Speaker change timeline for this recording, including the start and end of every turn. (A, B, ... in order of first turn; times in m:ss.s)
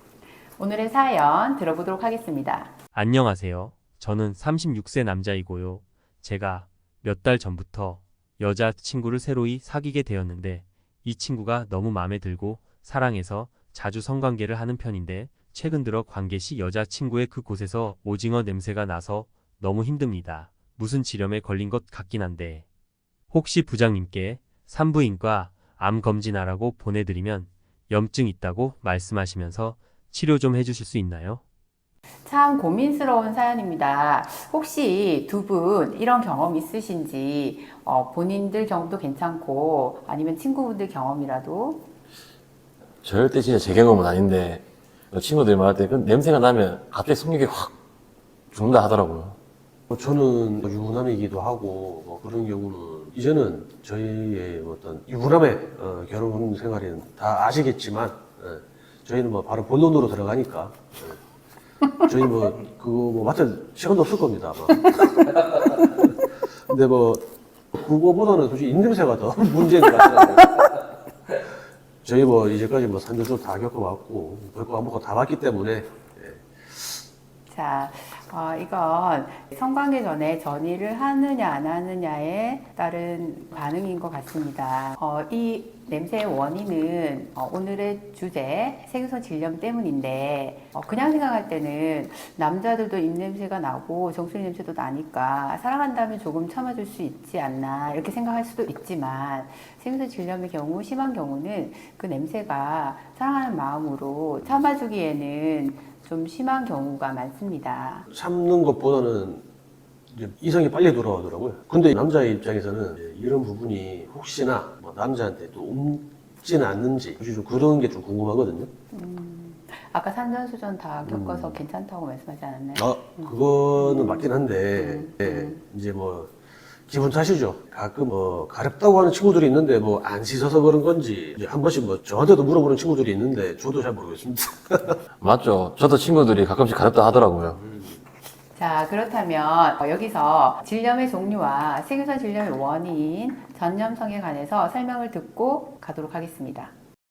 0:00.6-0:02.7 A
0:02.9-0:22.6 B
0:23.3-0:31.4 B
0:32.2-0:41.9 A
0:43.0-0:47.7 C
0:48.5-0:49.4 C
0:49.9-1:01.2 D
1:02.0-1:05.6 D
1:06.4-1:10.6 D
1:12.0-1:17.0 D
1:17.5-1:48.1 A
1:48.1-1:49.4 D
1:50.1-1:58.7 D
1:58.9-2:05.6 A
2:01.0-2:01.6 D
2:02.8-2:06.3 D
2:06.9-2:15.0 D
2:15.2-2:17.6 C
2:18.5-2:26.7 A